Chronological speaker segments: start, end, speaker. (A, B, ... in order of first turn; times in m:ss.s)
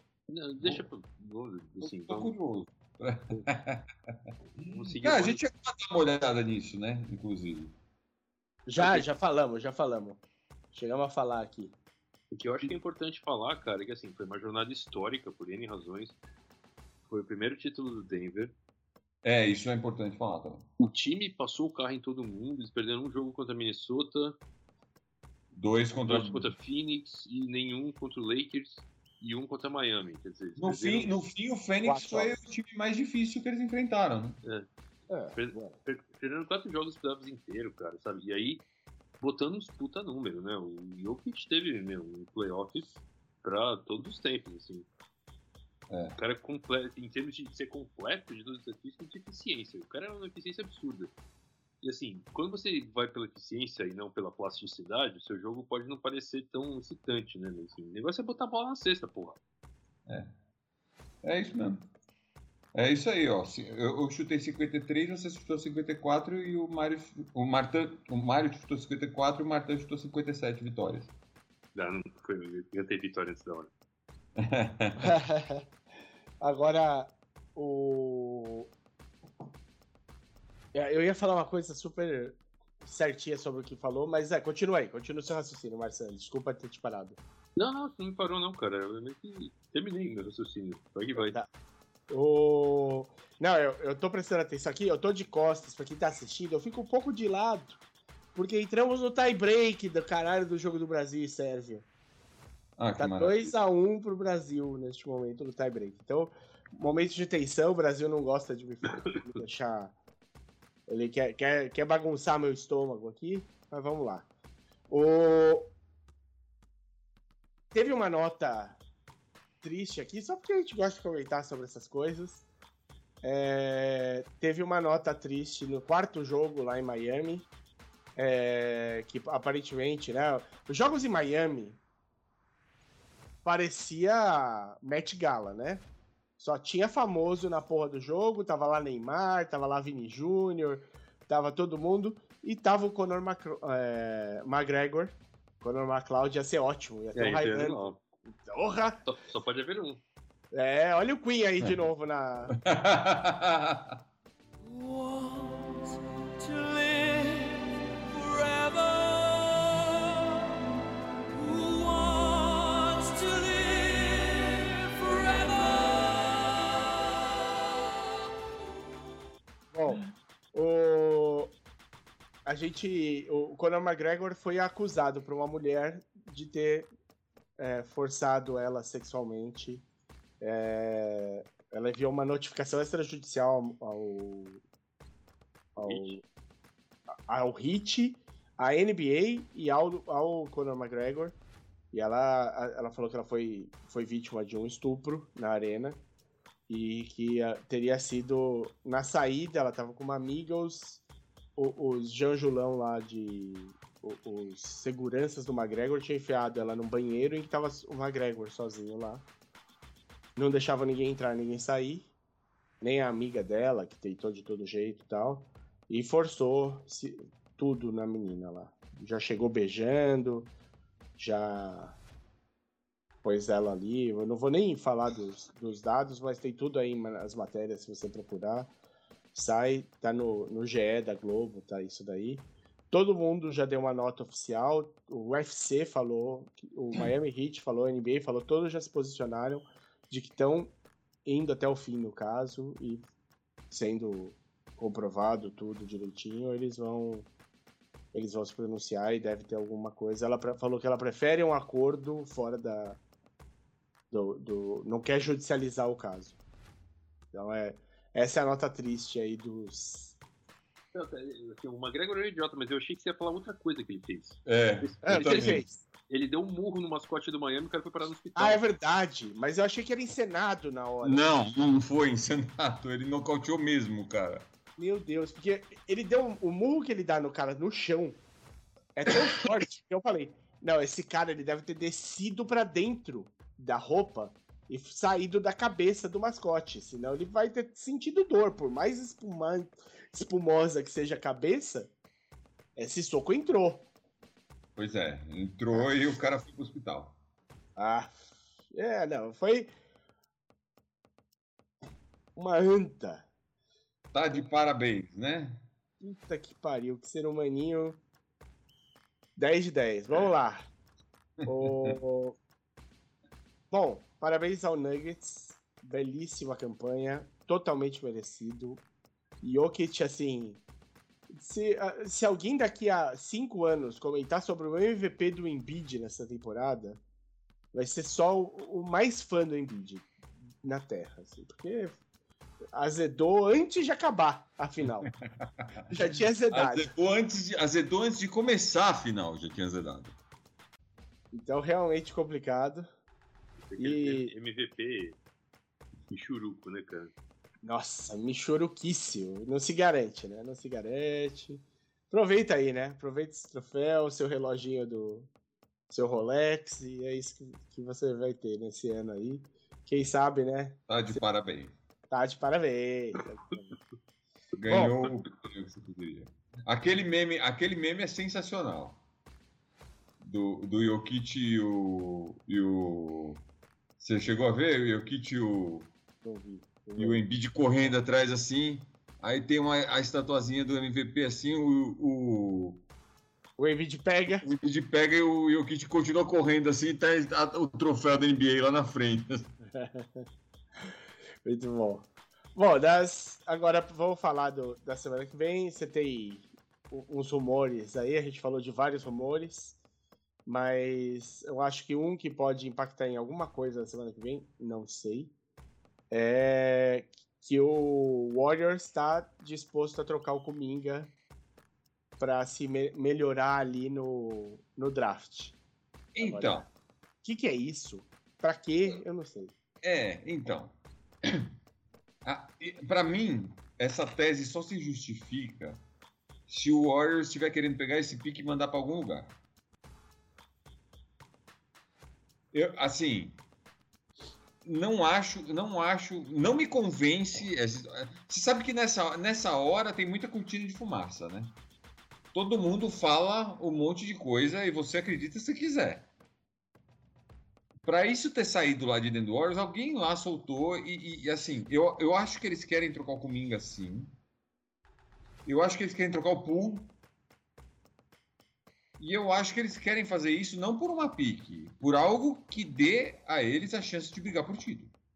0:00.3-0:02.3 A
0:00.6-0:00.9 B
0:01.8-0:07.8 B
0:04.6-0:05.4 A
0:08.7-0:10.2 C
0:10.7-0:11.7 C
0:12.3-0:16.2 A
0:17.1-0:18.6 A
0:19.2-0:20.7 B
0:20.8-0:24.4 A
0:25.5-0:26.5 B
0:26.0-0:31.3 A
0:30.6-0:34.4 B
0:31.8-0:32.4 C
0:35.1-0:35.8 C
0:35.3-0:38.7 A
0:39.2-0:44.9 A
0:45.9-0:46.1 B
0:46.2-0:51.1 A
0:51.8-0:59.4 A
1:00.0-1:00.3 B
1:01.2-1:01.9 B
1:02.7-1:11.1 B
1:11.7-1:13.7 A
1:14.4-1:15.2 B
1:15.0-1:15.7 C
1:16.4-1:18.7 C
1:20.7-1:27.2 C
1:27.6-1:31.4 A
1:31.2-1:31.5 C
1:32.1-1:37.8 C
1:38.3-1:41.9 C
1:42.8-1:43.6 B
1:43.0-1:50.0 C
1:50.9-1:54.3 C
1:54.9-1:55.7 C
1:57.7-1:58.8 C
1:59.6-2:02.4 C
2:03.2-2:07.5 C
2:08.2-2:11.8 C
2:13.4-2:27.9 C
2:27.1-2:28.0 A
2:28.4-2:29.0 C
2:29.0-2:30.0 A
2:30.5-2:32.6 C
2:32.6-2:34.0 B
2:34.6-2:40.6 D
2:41.3-2:47.4 D
2:49.7-2:51.6 C
2:52.4-2:56.9 C
2:57.6-2:59.9 C
3:00.4-3:04.6 C
3:05.8-3:06.2 C
3:05.8-3:06.2 A
3:07.3-3:11.4 C
3:11.9-3:16.0 C
3:16.7-3:21.0 C
3:21.6-3:29.3 C
3:30.4-3:32.1 C
3:32.8-3:40.5 C
3:41.2-3:42.0 C
3:43.2-3:48.7 C
3:49.3-4:03.0 C
4:03.7-4:07.3 C
4:08.1-4:13.0 C
4:14.1-4:16.4 C
4:17.3-4:20.2 C
4:20.9-4:28.6 A
4:24.4-4:25.6 B
4:25.0-4:25.8 C
4:28.4-4:31.4 C
4:31.0-4:34.4 B
4:34.8-4:38.2 C
4:39.0-4:51.9 C
4:52.8-4:53.9 C
4:54.8-4:57.2 B
4:57.8-4:59.7 C
5:02.3-5:03.3 C
5:04.1-5:05.7 B
5:06.0-5:08.0 C
5:09.4-5:10.7 C
5:11.4-5:12.0 B
5:11.4-5:12.4 C
5:13.7-5:18.8 C
5:19.4-5:20.6 C
5:21.3-5:27.0 C
5:27.7-5:30.1 C
5:30.6-5:32.0 C
5:32.7-5:35.1 C
5:35.0-5:35.8 B
5:35.9-5:36.9 C
5:36.5-5:40.2 B
5:41.3-5:42.9 C
5:43.7-5:45.2 A
5:43.8-5:44.3 C
5:46.1-5:47.1 A
5:47.6-5:55.3 C
5:55.9-6:01.2 C
6:00.9-6:01.7 B
6:02.1-6:03.8 C
6:04.6-6:09.0 B
6:04.7-6:05.0 C
6:10.2-6:13.4 B
6:14.0-6:15.9 B
6:16.2-6:17.2 C
6:17.0-6:22.8 B
6:23.6-6:24.5 C
6:24.4-6:29.5 B
6:29.6-6:30.3 C
6:31.4-6:39.8 C
6:40.4-6:45.3 C
6:46.1-6:51.1 C
6:52.2-6:55.6 C
6:56.1-6:56.7 B
6:56.2-6:56.7 C
6:57.2-6:59.6 C
6:59.8-7:01.5 B
7:02.2-7:05.8 B
7:06.5-7:09.4 B
7:12.5-7:13.4 B
7:14.6-7:21.6 B
7:22.3-7:26.1 B
7:27.8-7:34.2 B
7:35.4-7:37.0 B
7:39.0-7:44.9 B